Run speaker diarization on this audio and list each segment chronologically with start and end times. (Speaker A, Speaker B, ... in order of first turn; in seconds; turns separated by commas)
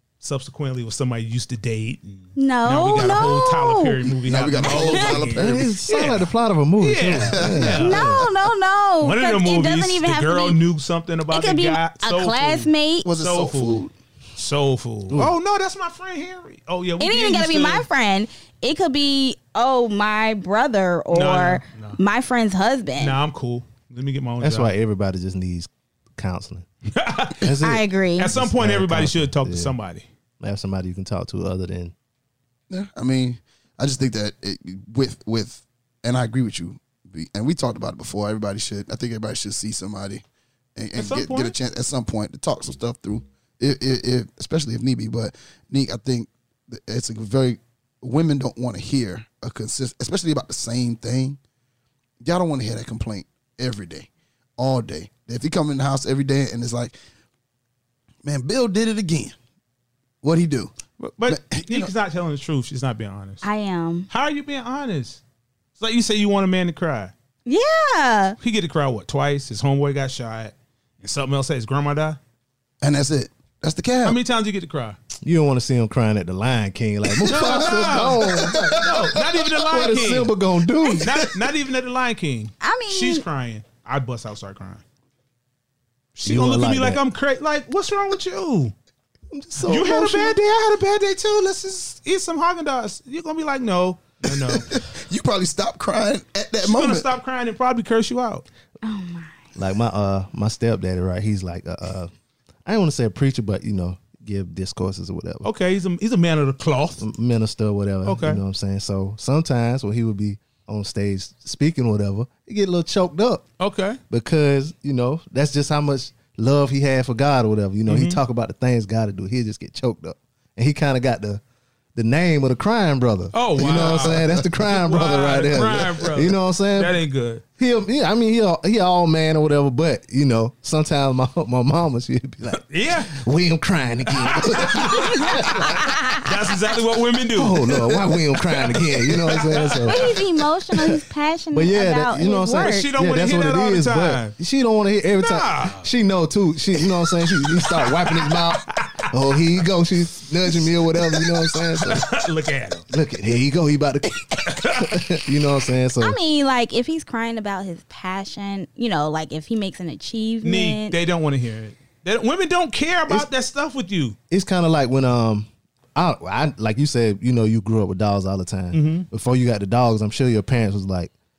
Speaker A: 0.2-8.2, Speaker B: 2.4-4.0, Speaker C: 4.2-5.9, Speaker B: 4.7-5.3, Speaker D: 5.3-8.3, Speaker C: 7.3-7.7, Speaker B: 7.8-10.6, Speaker A: 9.0-17.9, Speaker B: 11.3-13.1, Speaker C: 13.0-13.9, Speaker D: 15.1-15.3, Speaker B: 17.0-23.1, Speaker A: 21.1-22.0, Speaker A: 23.0-24.7, Speaker D: 24.4-26.6, Speaker A: 26.9-27.6, Speaker D: 27.3-29.7, Speaker B: 27.5-28.3, Speaker A: 28.1-30.1, Speaker D: 30.4-31.9, Speaker C: 32.7-40.2, Speaker C: 40.8-51.4, Speaker A: 41.0-41.5, Speaker C: 52.2-57.0, Speaker C: 58.2-59.3, Speaker C: 60.2-60.7, Speaker A: 61.0-63.4, Speaker C: 61.3-61.9, Speaker B: 63.4-64.1, Speaker A: 64.1-65.2, Speaker A: 65.8-67.1, Speaker B: 67.5-68.4, Speaker A: 68.4-72.2, Speaker C: 72.8-74.2, Speaker A: 74.0-75.0, Speaker D: 75.2-81.4, Speaker C: 77.1-79.3, Speaker A: 77.3-84.8, Speaker B: 82.6-83.2, Speaker A: 86.1-88.7, Speaker D: 86.2-87.0, Speaker D: 89.3-90.4, Speaker A: 89.6-94.8, Speaker C: 94.3-97.1, Speaker A: 96.6-98.5, Speaker B: 98.8-99.4, Speaker D: 99.5-102.1, Speaker D: 102.7-105.5, Speaker A: 105.4-107.0, Speaker D: 107.0-113.4, Speaker A: 108.0-108.4, Speaker A: 113.6-114.0, Speaker D: 114.1-121.4, Speaker A: 117.9-118.2, Speaker D: 121.9-127.0, Speaker A: 123.3-127.4, Speaker D: 127.6-136.0, Speaker A: 132.7-133.2, Speaker A: 134.1-137.7, Speaker B: 134.9-136.3, Speaker D: 137.3-140.1, Speaker C: 137.6-138.0, Speaker A: 138.5-140.2, Speaker B: 139.8-142.9, Speaker D: 141.5-152.1, Speaker A: 142.6-144.3, Speaker A: 145.2-145.9, Speaker A: 147.1-149.1, Speaker A: 150.5-152.8, Speaker D: 152.9-156.2, Speaker A: 154.4-155.2, Speaker B: 156.0-161.0, Speaker A: 160.4-164.2, Speaker D: 164.3-171.1, Speaker A: 168.7-169.1